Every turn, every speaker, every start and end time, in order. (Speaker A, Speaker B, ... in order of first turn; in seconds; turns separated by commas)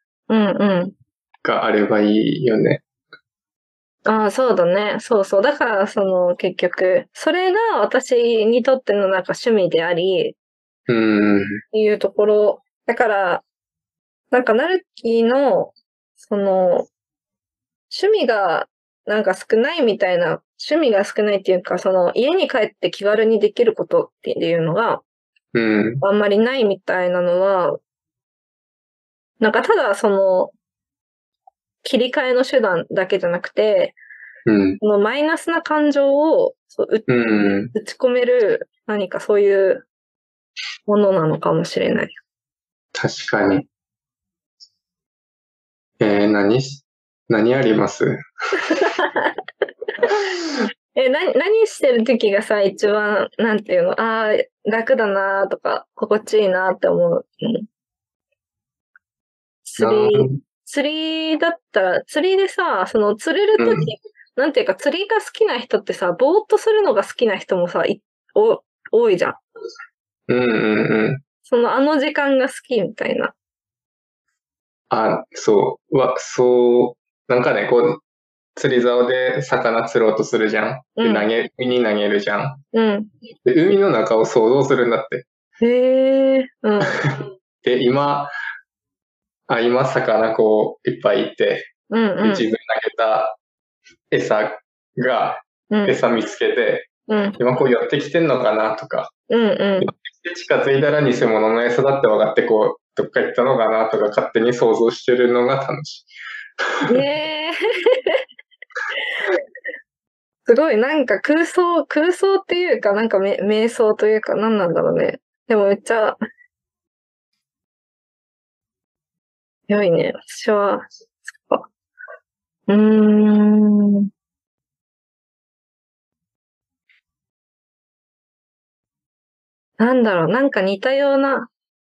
Speaker A: 0.3-0.9, Speaker B: 1.4-2.8, Speaker A: 4.0-10.3, Speaker B: 10.9-11.6, Speaker A: 11.7-13.4, Speaker A: 14.3-16.9, Speaker A: 17.9-25.0, Speaker B: 25.5-26.0, Speaker A: 26.0-27.8, Speaker A: 29.4-30.5, Speaker A: 31.8-34.0, Speaker B: 34.5-34.8, Speaker A: 34.8-37.1, Speaker B: 37.1-37.7, Speaker A: 37.6-39.9, Speaker A: 40.9-42.1, Speaker B: 42.9-43.6, Speaker B: 46.0-48.2, Speaker A: 48.7-49.3, Speaker A: 50.0-57.6, Speaker A: 59.6-69.4, Speaker B: 59.8-60.4, Speaker B: 63.6-63.9, Speaker B: 70.3-71.2, Speaker A: 71.5-73.3, Speaker B: 74.9-78.0, Speaker B: 78.5-82.6, Speaker A: 81.0-81.3, Speaker A: 82.7-83.1, Speaker B: 83.4-85.2, Speaker A: 85.6-87.0, Speaker B: 86.9-88.3, Speaker B: 89.5-91.7, Speaker A: 91.9-92.5, Speaker B: 92.2-93.4, Speaker B: 94.1-99.1, Speaker A: 95.7-96.0, Speaker A: 97.1-97.4, Speaker A: 99.3-99.9, Speaker B: 99.8-106.1, Speaker A: 106.9-108.2, Speaker A: 110.5-116.2, Speaker A: 119.7-120.8, Speaker A: 121.4-121.7, Speaker A: 122.7-124.1, Speaker A: 129.8-131.5